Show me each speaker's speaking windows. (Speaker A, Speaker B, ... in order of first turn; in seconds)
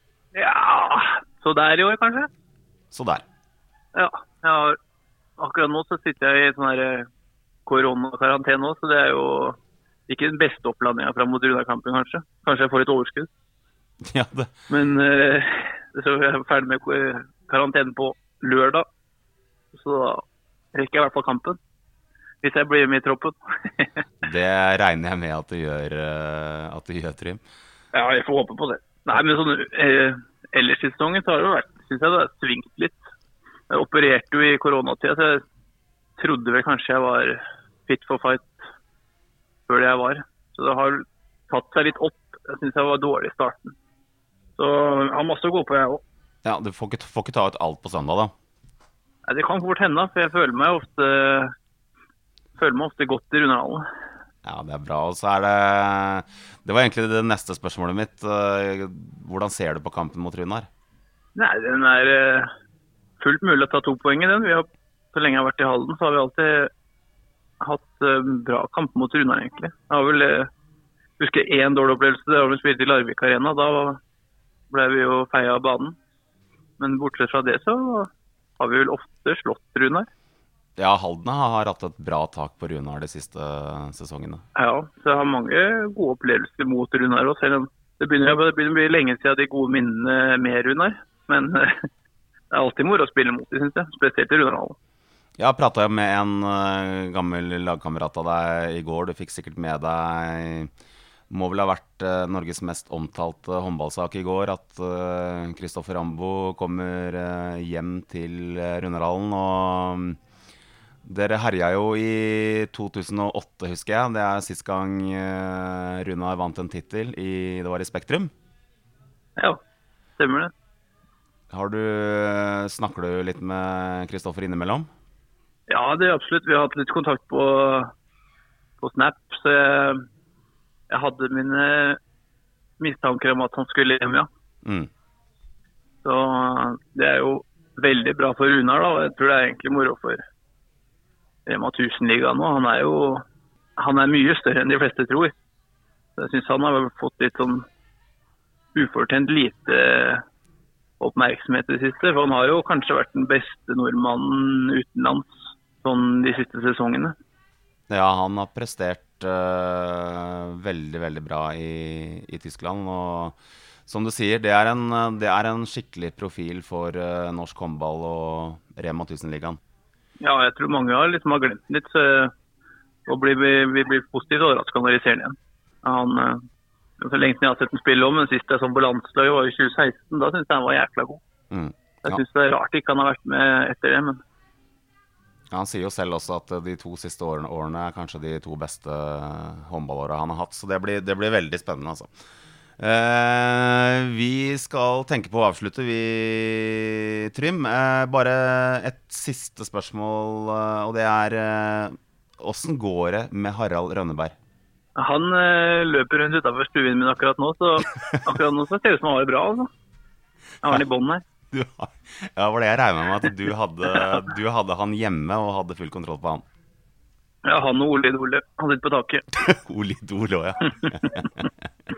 Speaker A: 0.3-2.3, 3.9-4.8, 5.4-7.1, 7.7-13.3, 14.7-18.9, 19.7-21.6, 22.4-23.9, 27.9-33.0, 33.7-35.4, 36.2-38.6, 39.7-43.8, 44.6-46.0, 49.3-51.5, 52.6-53.9, 61.4-62.5, 63.2-66.7, 67.6-70.5, 71.2-74.0, 74.7-76.0, 76.8-80.1, 84.5-91.9, 92.5-94.8, 120.2-120.5, 125.7-127.9, 128.8-130.1, 130.9-132.0, 132.8-134.3, 136.0-140.2, 141.4-143.2, 143.8-145.3, 146.2-147.7, 148.7-150.2, 151.0-157.2, 170.2-172.3, 173.1-176.4, 177.0-181.2, 182.0-184.2, 204.9-209.7, 210.6-211.2, 217.4-219.3
Speaker B: 2.9-3.2, 14.0-14.5, 24.2-27.4, 46.4-48.3, 54.4-60.7, 80.8-84.4, 95.4-100.7, 101.3-110.2, 111.0-118.3, 121.5-124.9, 134.6-134.9, 157.9-163.4, 163.9-169.6, 181.5-182.2, 185.5-192.1, 192.8-204.3, 211.5-216.4, 219.4-221.4